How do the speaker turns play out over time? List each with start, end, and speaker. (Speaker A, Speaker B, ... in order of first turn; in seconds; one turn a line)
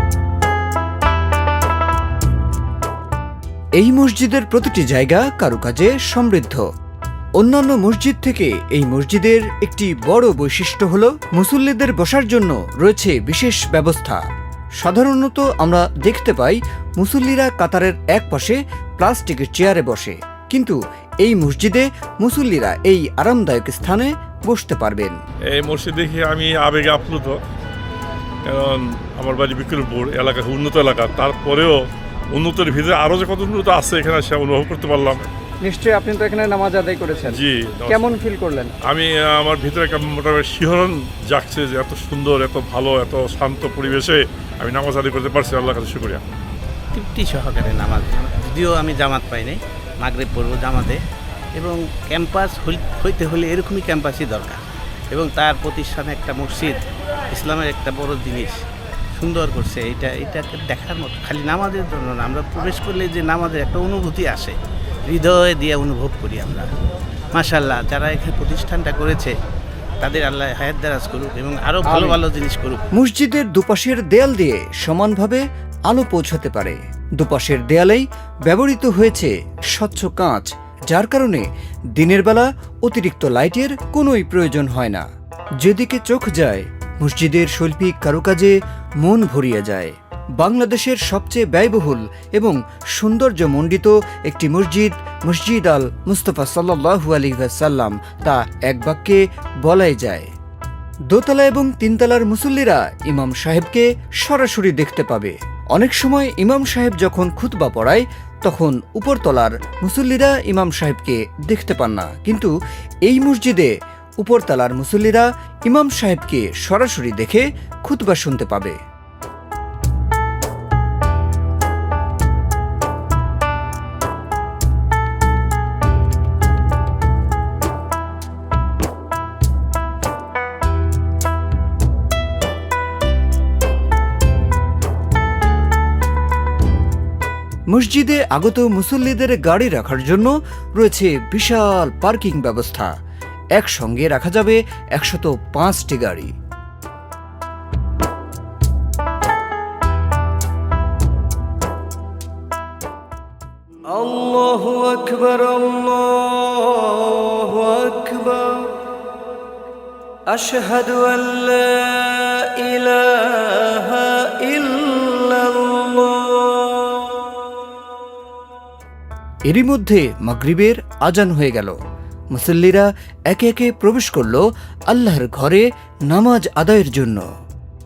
Speaker A: 3.8-6.7
Speaker A: 7.4-14.2
Speaker A: 14.8-25.2
Speaker B: 25.5-27.4
Speaker B: 28.4-31.8
Speaker B: 32.3-35.2
Speaker C: 35.6-38.7
Speaker B: 37.3-38.1
Speaker B: 38.9-46.2
Speaker D: 46.9-51.0
Speaker D: 51.6-54.6
Speaker D: 55.1-56.8
Speaker D: 57.3-58.6
Speaker D: 59.2-64.5
Speaker D: 65.1-66.7
Speaker D: 67.3-69.3
Speaker D: 70.0-72.8
Speaker C: 71.9-72.2
Speaker A: 72.9-85.1
Speaker A: 85.6-100.3
Speaker A: 101.1-112.5
Speaker A: 113.1-118.8
Speaker A: 137.7-142.9
Speaker A: 143.6-146.3
Speaker E: 154.0-156.1
Speaker E: 157.8-158.3
Speaker E: 160.4-161.1
Speaker A: 169.5-171.8
Speaker A: 172.3-177.2